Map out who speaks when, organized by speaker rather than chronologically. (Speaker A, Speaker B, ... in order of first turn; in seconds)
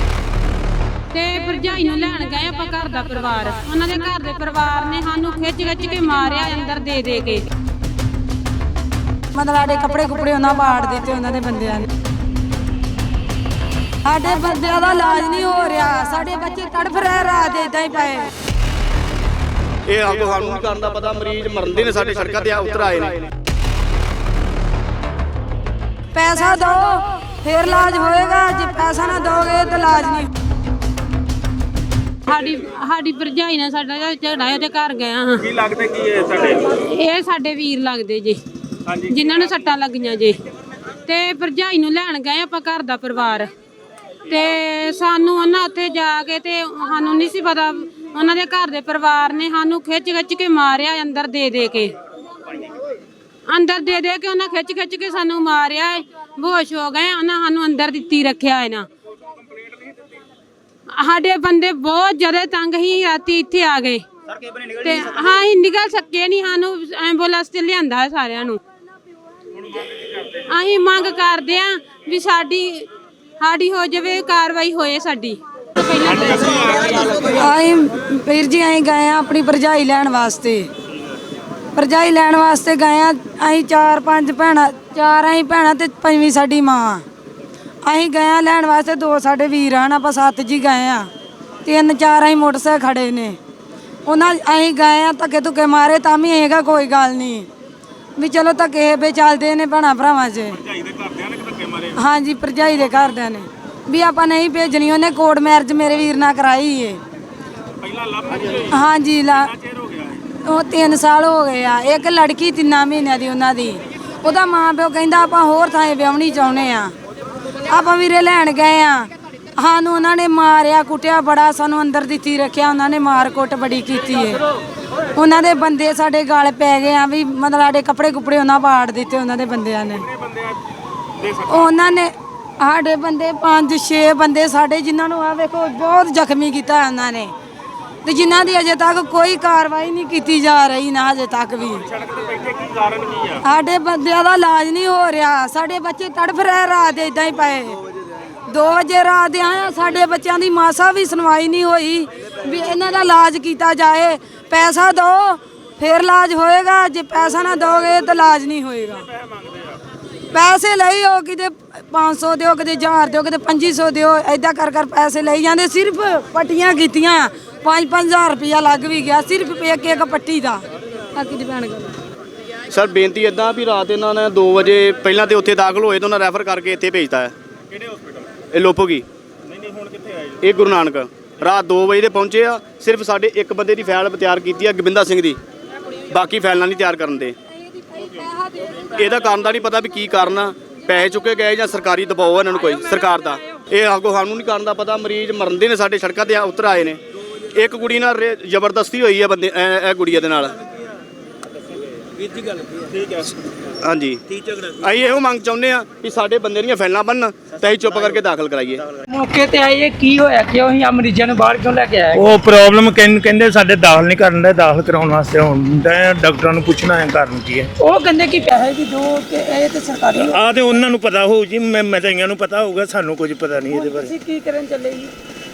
Speaker A: 1.1-7.5, 32.3-40.4, 41.0-43.5, 44.3-52.0, 53.5-58.9, 60.9-68.6, 69.9-72.9, 73.4-77.0
Speaker B: 9.3-11.9, 14.1-18.3, 26.1-30.3, 77.1-80.7, 81.8-87.0, 87.8-91.1, 91.6-93.4, 94.1-97.5, 98.2-100.7, 101.8-107.0, 108.5-109.6, 110.3-116.9, 117.7-124.4, 125.1-130.1, 131.3-137.3, 138.0-141.9, 143.4-147.8, 148.5-159.1, 160.3-171.9
Speaker C: 19.9-23.3, 172.7-177.3, 178.5-179.1, 180.2-185.4, 186.1-187.4, 188.7-200.6, 203.0-203.3, 203.8-208.8
Speaker D: 100.8-101.7, 108.1-108.4, 142.2-143.3, 224.3-224.7
Speaker E: 209.1-212.2, 217.9-220.3, 223.8-225.1
Speaker F: 212.1-217.7, 220.2-224.1